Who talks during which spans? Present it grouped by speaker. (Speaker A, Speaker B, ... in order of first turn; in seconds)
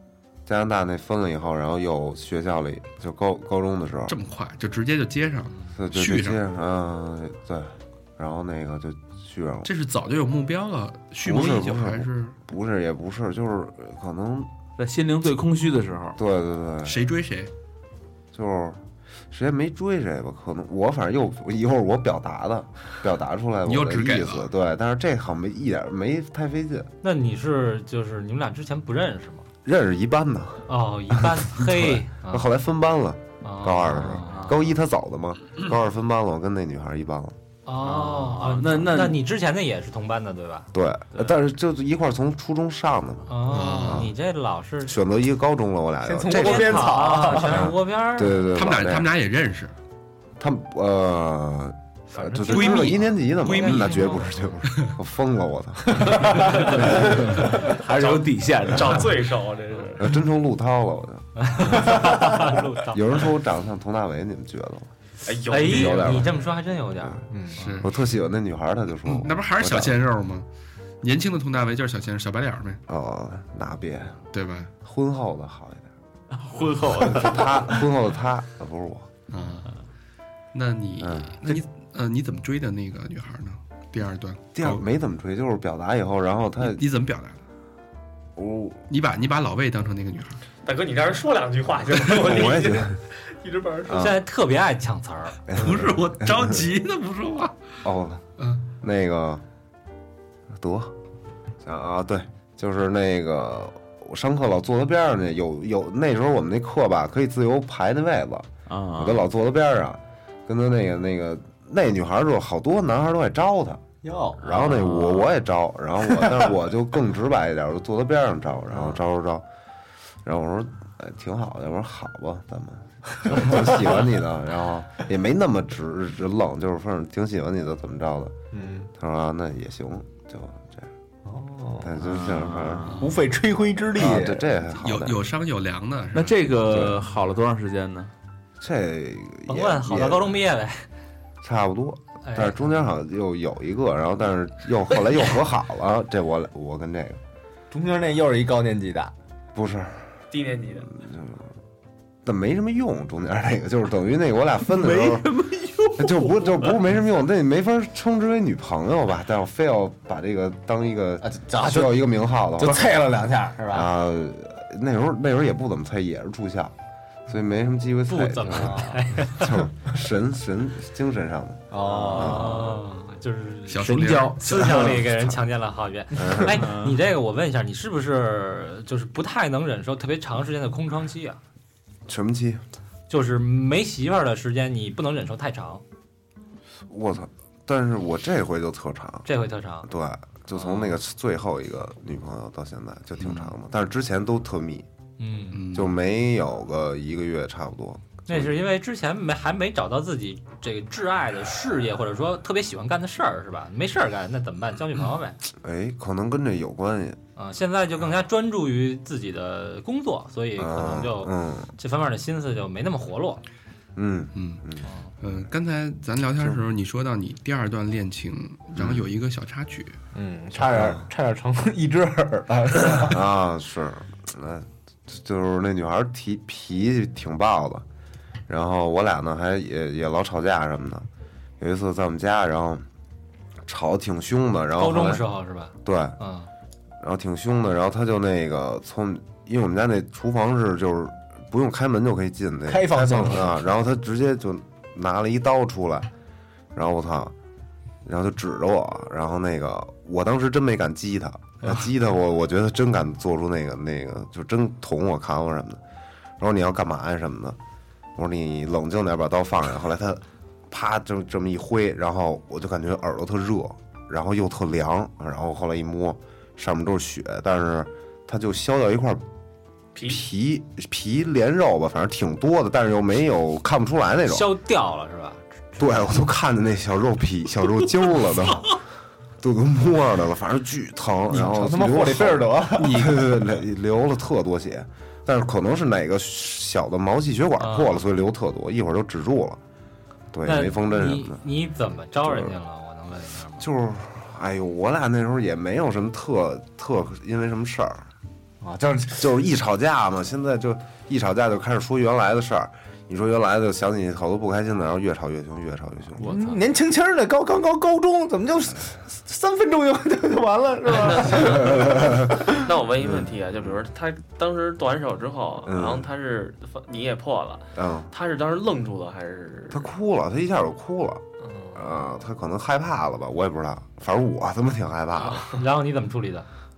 Speaker A: 0.5-4.2, 5.7-9.7, 11.2-14.5, 16.2-17.1, 18.3-26.9, 29.6-37.4, 40.7-44.1, 44.8-49.1, 50.4-57.3, 60.0-64.9, 65.6-66.4, 67.8-70.0, 72.9-74.2, 74.8-75.9, 77.0-79.1, 81.0-81.6, 84.5-86.8, 88.3-88.9, 92.1-93.0, 93.8-94.2, 95.5-96.5, 97.8-98.2, 98.8-99.4, 100.5-100.9, 101.6-113.8, 114.4-119.5, 120.2-128.3, 128.9-130.9, 131.8-133.1, 133.9-135.2, 136.7-137.0, 138.6-140.4, 141.4-147.2, 149.5-150.1, 150.9-151.5, 152.2-155.3, 156.0-163.1, 163.7-166.7, 167.3-172.6, 176.1-176.7, 182.1-182.6, 186.8-189.3, 189.8-194.9, 195.7-198.5, 205.5-207.2, 210.6-211.7, 213.9-214.9, 218.7-219.1, 220.7-221.0, 222.9-227.8, 228.5-231.1, 231.6-232.9, 233.7-235.2, 235.8-236.2, 237.0-246.1, 246.7-247.3, 248.0-255.8, 256.4-257.6, 258.1-269.2, 270.0-274.5, 275.8-278.8, 279.4-289.6, 290.3-291.4, 292.2-292.6, 293.6-298.1, 299.1-306.3, 313.0-313.8, 315.6-316.1, 317.7-318.1, 319.7-325.5
Speaker B: 4.1-6.4, 9.6-12.3, 16.8-17.5, 23.6-24.5, 43.5-44.1, 48.5-49.7, 52.4-54.2, 67.6-67.9, 69.0-70.5, 71.0-72.8, 74.3-74.7, 79.3-79.8, 80.5-84.8, 86.6-87.4, 88.9-90.4, 95.5-97.5, 132.9-133.1, 134.7-136.4, 173.7-175.2, 195.5-195.9, 214.3-214.6, 215.2-220.0
Speaker C: 14.8-16.2, 34.3-34.6, 37.8-39.2, 56.9-59.3, 76.3-77.8, 108.7-109.2, 114.6-115.3, 132.2-133.0, 136.1-138.1, 173.8-175.0, 176.5-176.9, 306.2-306.6
Speaker D: 27.0-29.5, 30.7-32.5, 33.4-34.6, 37.6-40.7, 43.3-45.0, 46.3-48.4, 52.1-54.3, 61.4-63.2, 65.5-67.8, 93.9-95.4, 139.5-140.9, 142.2-142.7, 168.1-169.6, 171.9-181.4, 183.1-185.8, 189.2-189.9, 190.7-191.0, 195.2-195.7, 198.3-205.4, 207.4-213.4, 234.8-236.5, 274.3-276.1, 287.6-288.0, 290.4-293.7, 325.5-326.5
Speaker E: 46.0-47.8, 55.9-57.4, 67.3-67.6, 114.0-114.6, 116.0-116.5, 118.7-119.0, 123.4-124.0, 128.5-128.9, 131.2-132.2, 133.0-134.5, 147.7-149.1, 154.7-156.7, 161.2-163.9, 168.5-169.0, 171.7-172.6, 220.1-223.2, 242.7-243.6, 281.3-283.4, 298.6-299.4, 306.2-312.5
Speaker F: 57.9-60.2, 65.2-66.1, 90.6-94.1, 150.3-150.9, 269.9-270.2, 310.9-319.9, 321.4-322.1, 325.2-325.5